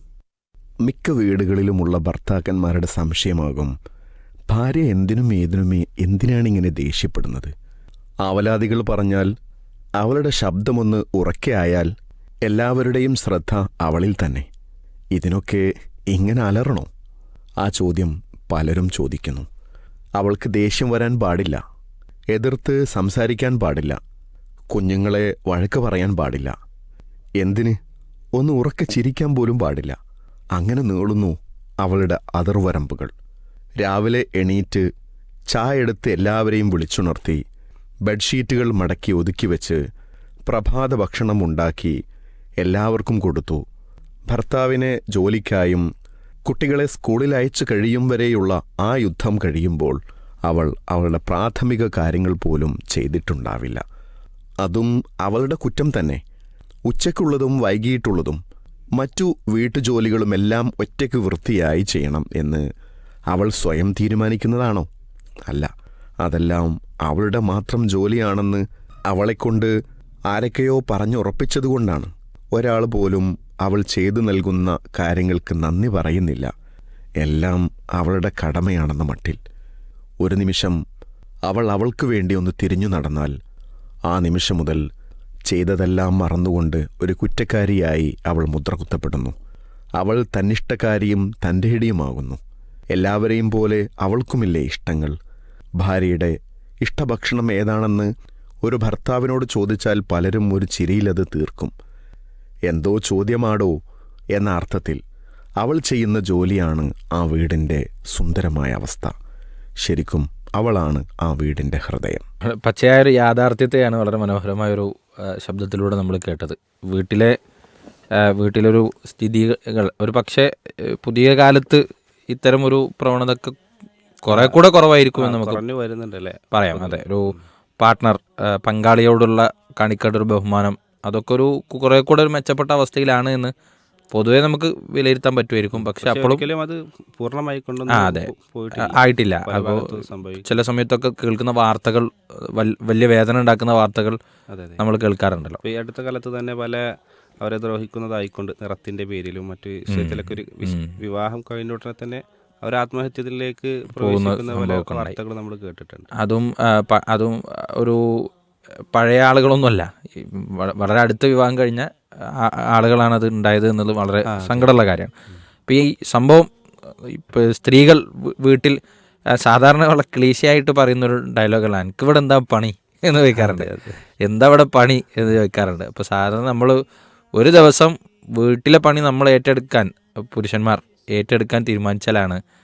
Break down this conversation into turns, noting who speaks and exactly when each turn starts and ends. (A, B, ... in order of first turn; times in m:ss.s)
0:00.8-0:03.7 A
0:04.5-0:07.5 A
0:08.2-0:09.3 A
0:10.0-0:11.9 A
0:12.4-0:14.5 A
0:15.1-0:16.9 A
0:17.6-0:19.5 A
0:20.2-0:21.6 A
0:22.3-0:24.0 A
0:24.7-0:26.5 A
0:27.4-0:27.8 A
0:28.4-0:30.0 A
0:30.6-0:33.1 A
0:33.8-0:34.8 A
0:35.5-0:37.4 A
0:38.1-0:39.8 A
0:40.5-0:42.0 A
0:42.6-0:43.6 A
0:44.3-0:45.9 A
0:46.4-0:53.8 A
0:54.6-0:56.2 A
0:56.9-0:58.4 A
0:59.0-1:02.6 A
1:03.3-1:04.9 A
1:06.2-1:09.7 A
1:10.3-1:16.5 A
1:17.2-1:19.4 A
1:20.2-1:20.8 A
1:21.5-1:23.4 A
1:24.1-1:24.8 A
1:25.5-1:29.3 A
1:30.0-1:32.4 A
1:32.9-1:35.2 A
1:35.8-1:38.1 A
1:38.6-1:41.7 A
1:42.7-1:43.8 A
1:44.3-1:45.0 A
1:45.6-1:49.1 A
1:49.8-1:52.2 A
1:52.6-1:57.3 B
1:58.4-2:01.8 B
2:02.3-2:03.5 B
2:04.2-2:05.6 B
2:04.3-2:04.6 C
2:05.2-2:07.4 C
2:06.5-2:13.5 B
2:14.1-2:16.4 B
2:15.7-2:20.5 C
2:17.9-2:24.2 B
2:24.5-2:24.8 C
2:24.8-2:25.6 B
2:25.6-2:26.8 C
2:27.4-2:36.1 C
2:29.9-2:31.0 B
2:33.9-2:35.2 B
2:36.2-2:38.0 B
2:38.9-2:41.9 B
2:42.4-2:45.1 B
2:44.3-2:44.7 C
2:45.7-2:46.5 B
2:47.0-2:48.8 B
2:49.4-2:53.7 B
2:53.3-2:54.0 C
2:54.2-2:56.8 B
2:57.4-3:02.4 B